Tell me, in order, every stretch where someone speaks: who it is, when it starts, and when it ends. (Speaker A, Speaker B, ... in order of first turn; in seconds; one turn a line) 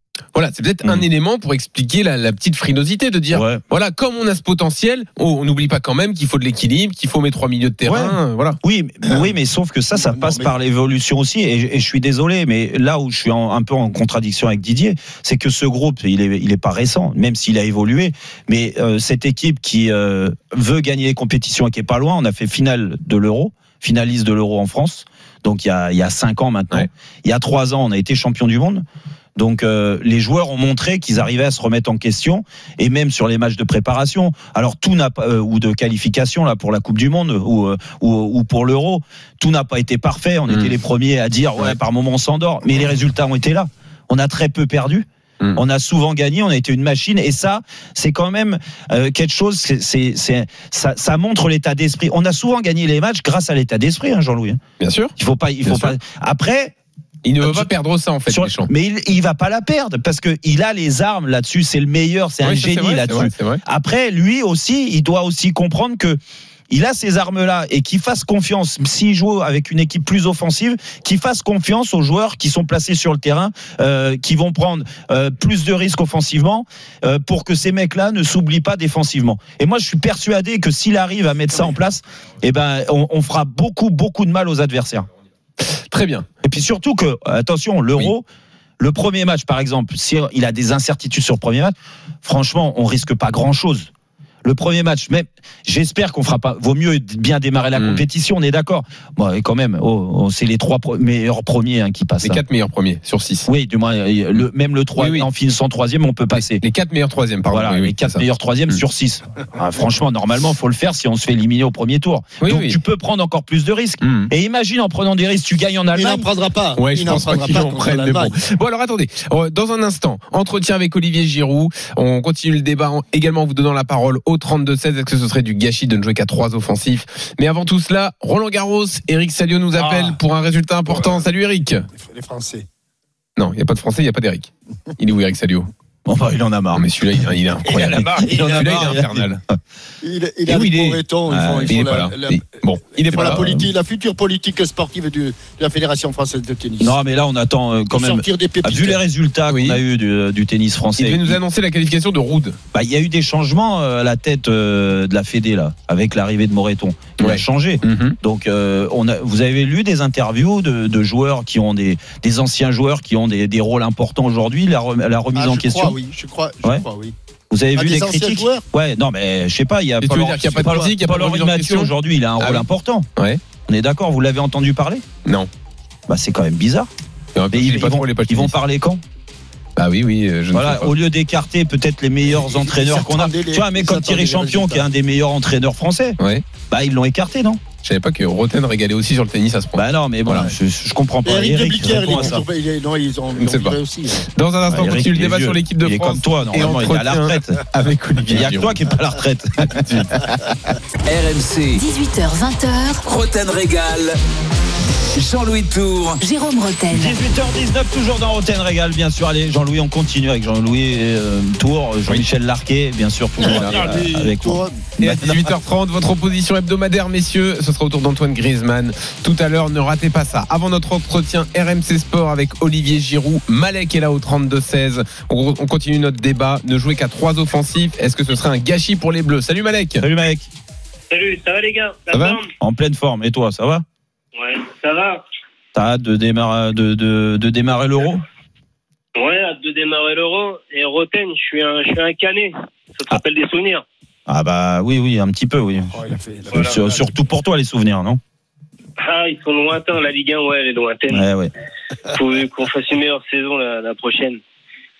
Speaker A: 0.3-8.6
Speaker B: 3.3-3.6
Speaker B: 7.8-28.8
Speaker C: 9.9-10.5
Speaker B: 29.4-54.6
Speaker A: 54.8-55.1
Speaker B: 55.2-56.7
Speaker A: 55.7-55.9
Speaker A: 57.2-58.7
Speaker B: 57.4-57.7
Speaker B: 58.3-66.2
Speaker A: 62.4-63.6
Speaker B: 66.7-85.1
Speaker A: 85.9-86.2
Speaker B: 86.4-88.2
Speaker B: 88.8-93.9
Speaker B: 94.4-102.4
Speaker A: 97.8-98.0
Speaker A: 102.2-103.5
Speaker B: 103.5-106.6
Speaker A: 105.0-105.3
Speaker A: 106.3-108.8
Speaker B: 107.5-116.2
Speaker A: 112.4-112.8
Speaker A: 114.0-114.3
Speaker C: 115.9-118.3
Speaker A: 116.8-131.8
Speaker C: 129.8-130.2
Speaker C: 130.9-131.2
Speaker C: 131.9-132.7
Speaker A: 133.4-135.7
Speaker B: 136.1-136.8
Speaker A: 136.7-139.4
Speaker C: 137.6-139.0
Speaker B: 137.8-139.3
Speaker C: 140.0-142.4
Speaker B: 140.5-141.9
Speaker A: 141.7-143.6
Speaker C: 142.9-146.9
Speaker B: 143.2-143.6
Speaker B: 146.8-151.4
Speaker C: 147.9-149.0
Speaker A: 149.5-149.8
Speaker A: 151.0-152.6
Speaker B: 152.7-165.9
Speaker A: 157.2-158.2
Speaker C: 165.3-167.1
Speaker B: 167.5-173.1
Speaker C: 167.8-168.6
Speaker A: 170.0-172.6
Speaker B: 173.7-175.0
Speaker B: 176.1-176.9
Speaker A: 177.3-178.5
Speaker B: 177.5-179.0
Speaker A: 179.8-180.9
Speaker B: 180.5-186.2
Speaker C: 182.3-184.8
Speaker B: 186.7-187.6
Speaker A: 187.8-190.5
Speaker B: 189.7-192.4
Speaker C: 191.2-194.2
Speaker A: 193.3-193.8
Speaker A: 194.3-198.7
Speaker B: 194.7-197.6
Speaker B: 198.3-199.8
Speaker A: 199.7-200.2
Speaker D: 201.1-201.8
Speaker E: 201.7-203.0
Speaker D: 203.0-204.2
Speaker D: 205.2-206.2
Speaker E: 206.2-207.2
Speaker B: 206.9-215.4
Speaker C: 213.4-214.8
Speaker A: 213.4-213.8
Speaker A: 215.0-230.0
Speaker B: 230.0-230.5
Speaker F: 231.1-232.5
Speaker A: 232.1-232.4
Speaker B: 232.6-233.8
Speaker F: 234.3-235.2
Speaker B: 235.7-238.2
Speaker F: 239.2-243.8
Speaker B: 244.3-245.9
Speaker C: 245.9-247.1
Speaker B: 246.5-248.2
Speaker F: 249.0-251.2
Speaker B: 251.1-251.5
Speaker F: 252.1-254.4